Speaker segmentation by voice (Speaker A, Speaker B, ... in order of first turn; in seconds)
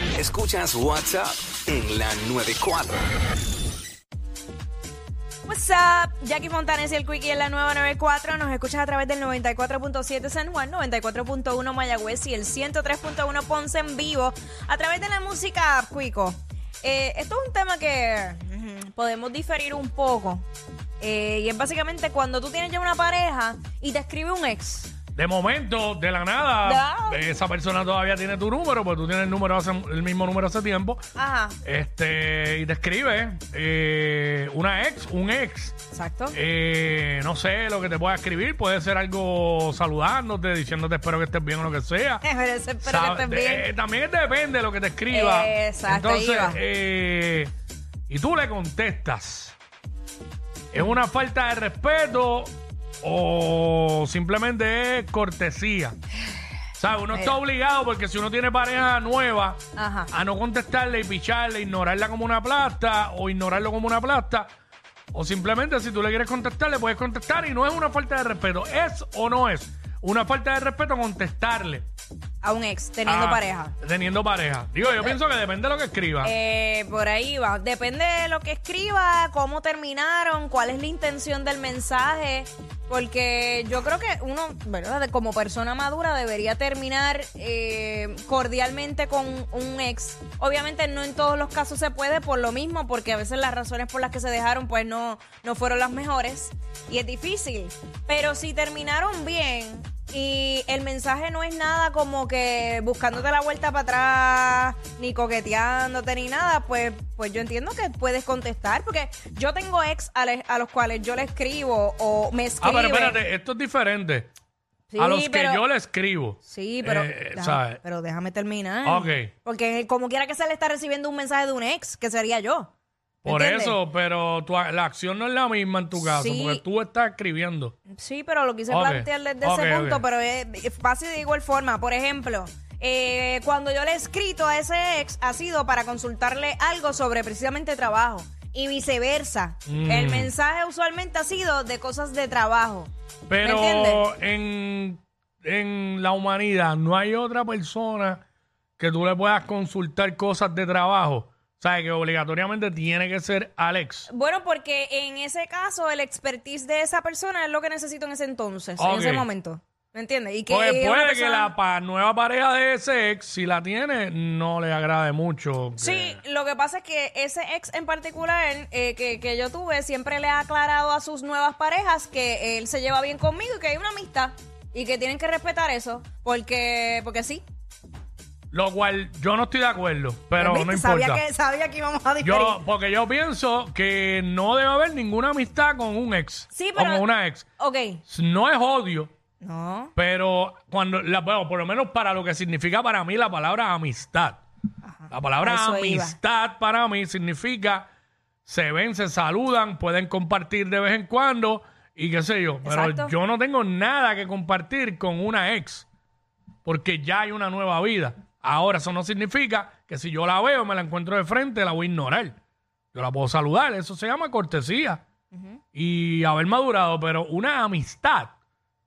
Speaker A: 0.1-3.0
Speaker B: 5.5-20.4, 21.0-24.9, 26.6-27.2, 31.1-31.6, 35.9-36.4, 42.2-43.6, 45.1-46.6, 59.8-60.1, 72.4-73.7, 74.8-75.2, 76.2-113.2, 114.9-115.6, 116.4-122.7, 123.2-123.8, 126.0-126.6, 127.9-142.9, 143.4-144.0, 154.1-161.5, 165.8-177.4, 180.4-182.6, 186.5-187.0, 187.6-188.0, 189.4-189.9, 194.8-196.2, 202.6-203.1, 215.3-215.6
Speaker C: 25.1-31.0, 31.6-35.8, 36.3-42.2, 42.8-47.5, 48.1-49.5, 50.7-56.0, 56.8-64.5, 65.1-71.8, 73.0-76.3, 112.6-114.3, 115.0-117.8, 118.8-119.3, 123.2-127.7, 128.7-130.0, 139.7-140.3, 143.3-148.2, 148.8-154.1, 158.8-159.3, 160.5-166.2, 178.5-181.2, 182.2-187.5, 188.0-189.1, 189.9-194.4, 195.1-197.9, 198.4-205.9, 206.6-212.4, 212.9-215.0, 215.7-218.3